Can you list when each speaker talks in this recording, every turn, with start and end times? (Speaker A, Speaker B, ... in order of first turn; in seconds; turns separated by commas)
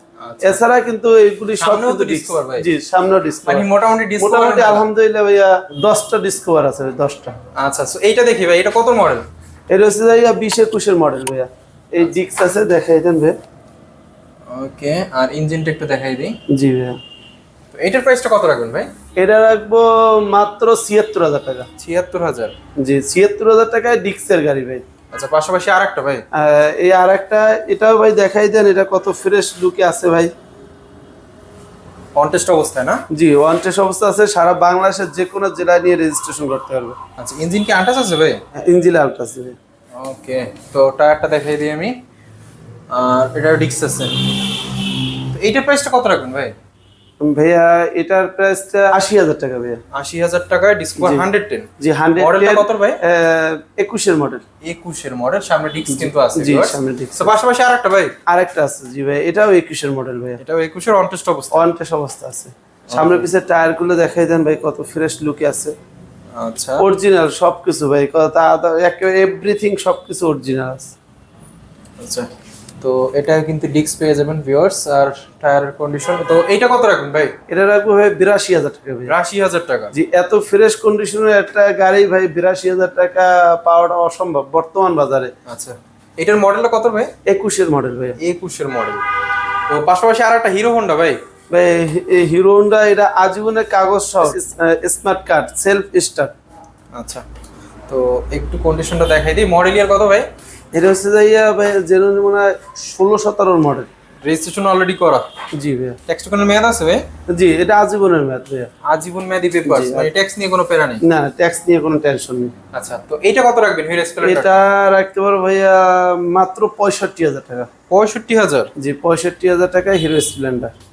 Speaker A: 0.2-0.6, Speaker B: 0.4-3.7, Speaker A: 1.6-2.6, Speaker A: 3.5-4.8, Speaker B: 4.2-7.3, Speaker A: 7.5-9.3, Speaker B: 9.7-13.3, Speaker A: 14.5-16.4, Speaker B: 16.5-17.0, Speaker A: 17.7-18.9, Speaker B: 19.2-21.7, Speaker A: 21.8-22.5, Speaker B: 22.8-24.8, Speaker A: 25.1-26.2, Speaker B: 26.4-30.3, Speaker A: 32.1-33.0, Speaker B: 33.1-37.0, Speaker A: 37.2-38.4, Speaker B: 38.6-39.5, Speaker A: 39.9-41.9, Speaker A: 42.9-46.5, Speaker B: 47.2-49.8, Speaker A: 49.9-53.0, Speaker B: 51.0-51.2, Speaker B: 51.8-54.4, Speaker A: 54.6-58.1, Speaker B: 55.9-57.3, Speaker B: 58.3-60.4, Speaker A: 60.4-61.7, Speaker B: 61.5-65.7, Speaker A: 62.9-63.3, Speaker A: 66.3-66.8, Speaker B: 66.8-70.9, Speaker A: 72.0-72.3, Speaker A: 72.8-77.3, Speaker B: 77.5-79.1, Speaker A: 79.1-79.9, Speaker B: 79.9-85.3, Speaker A: 85.5-87.1, Speaker B: 87.3-88.2, Speaker A: 88.2-89.0, Speaker A: 89.7-91.2, Speaker B: 91.5-96.3, Speaker A: 96.9-97.2, Speaker A: 97.9-100.2, Speaker B: 100.7-103.9, Speaker A: 104.2-105.2, Speaker B: 105.6-106.0, Speaker A: 106.1-107.0, Speaker B: 107.3-108.7, Speaker A: 108.8-111.0, Speaker B: 109.7-110.1, Speaker B: 111.0-112.5, Speaker A: 112.7-114.6, Speaker B: 114.2-117.7, Speaker A: 117.9-118.7, Speaker B: 118.8-120.7